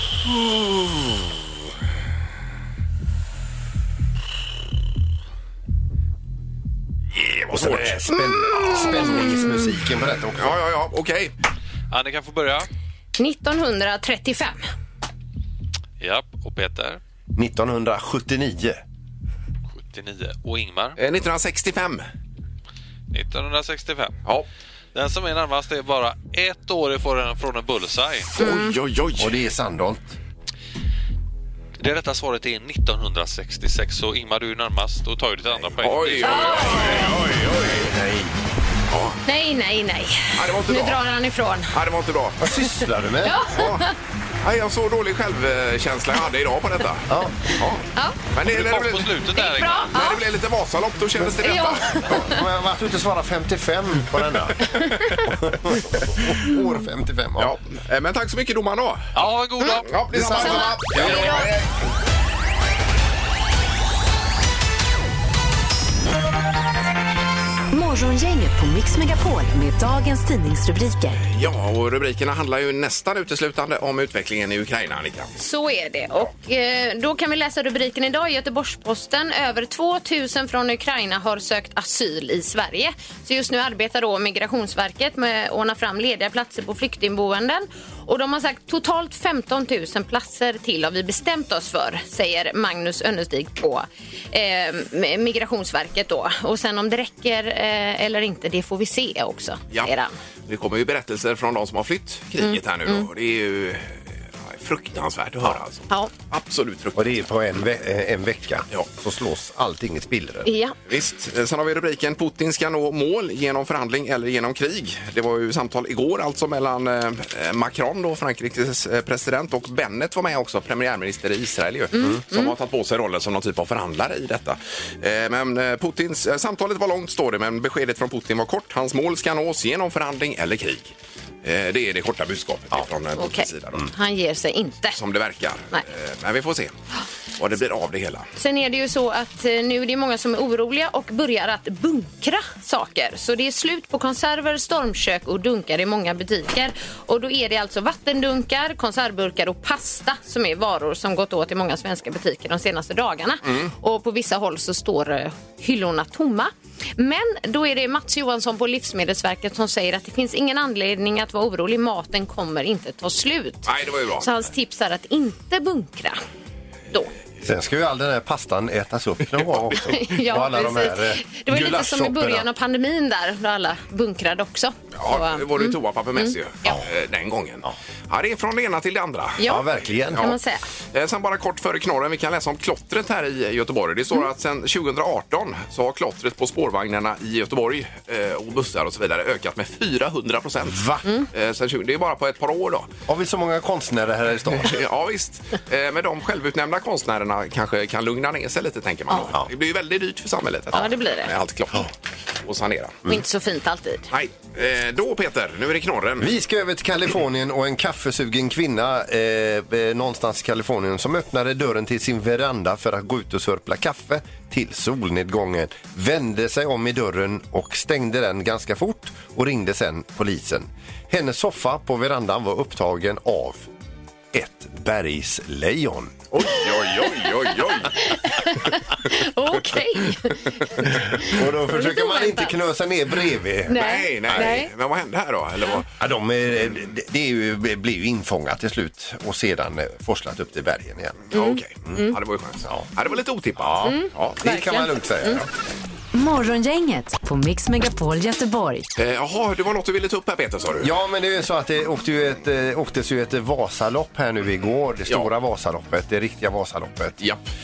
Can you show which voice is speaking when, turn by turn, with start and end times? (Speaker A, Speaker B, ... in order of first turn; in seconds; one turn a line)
Speaker A: 0.3-1.1
Speaker A: 7.1-8.0
Speaker B: 7.5-10.6
Speaker C: 8.4-9.6
Speaker A: 10.3-11.3
Speaker D: 11.9-12.7
Speaker C: 13.2-14.6
Speaker D: 16.0-17.0
Speaker B: 17.3-18.8
Speaker D: 19.7-21.0
Speaker A: 21.0-22.0
Speaker D: 23.1-24.1
Speaker D: 24.9-28.4
Speaker C: 28.4-28.7
Speaker A: 28.4-29.4
Speaker B: 29.2-30.2
Speaker D: 31.8-36.9
Speaker A: 35.8-37.9
Speaker C: 36.2-37.1
Speaker B: 37.8-38.3
Speaker A: 38.9-39.2
Speaker C: 39.2-41.7
Speaker A: 40.3-41.0
Speaker A: 41.7-42.4
Speaker B: 42.4-43.4
Speaker C: 43.2-43.9
Speaker A: 43.5-43.8
Speaker A: 44.4-47.8
Speaker B: 47.1-47.4
Speaker A: 48.3-49.2
Speaker D: 48.4-50.0
Speaker C: 49.3-50.2
Speaker A: 49.9-52.2
Speaker C: 51.4-52.4
Speaker B: 52.0-57.5
Speaker A: 57.4-59.1
Speaker D: 59.1-60.5
Speaker A: 59.8-61.7
Speaker B: 60.1-61.3
Speaker C: 60.4-61.5
Speaker E: 67.7-71.2
Speaker A: 71.2-75.3
Speaker C: 75.4-100.1
Speaker A: 100.5-107.2
Speaker C: 102.4-103.1
Speaker B: 106.9-110.5
Speaker C: 110.4-110.7
Speaker A: 110.9-133.9
Speaker C: 121.9-122.5
Speaker C: 133.2-135.0
Speaker A: 134.9-136.7
Speaker A: 137.4-138.3
Speaker C: 138.3-166.2
Speaker A: 163.7-164.3
Speaker B: 167.4-172.5
Speaker C: 169.8-176.8
Speaker A: 174.9-179.5
Speaker C: 179.4-180.6
Speaker B: 179.4-180.3
Speaker A: 180.1-180.4
Speaker A: 180.9-192.9
Speaker B: 190.6-191.0
Speaker B: 193.1-194.8
Speaker A: 194.6-201.9
Speaker C: 200.7-201.3
Speaker A: 202.4-203.0
Speaker C: 203.1-204.1
Speaker A: 204.1-206.3
Speaker B: 206.2-223.7
Speaker B: 224.3-226.2
Speaker A: 226.3-228.1
Speaker C: 227.9-232.5
Speaker B: 231.2-234.6
Speaker C: 233.7-234.7
Speaker A: 233.7-235.9
Speaker B: 236.0-241.3
Speaker A: 241.3-244.4
Speaker C: 241.3-242.1
Speaker B: 243.6-245.5
Speaker C: 243.8-245.4
Speaker E: 246.1-248.9
Speaker A: 248.9-250.9
Speaker B: 250.8-257.2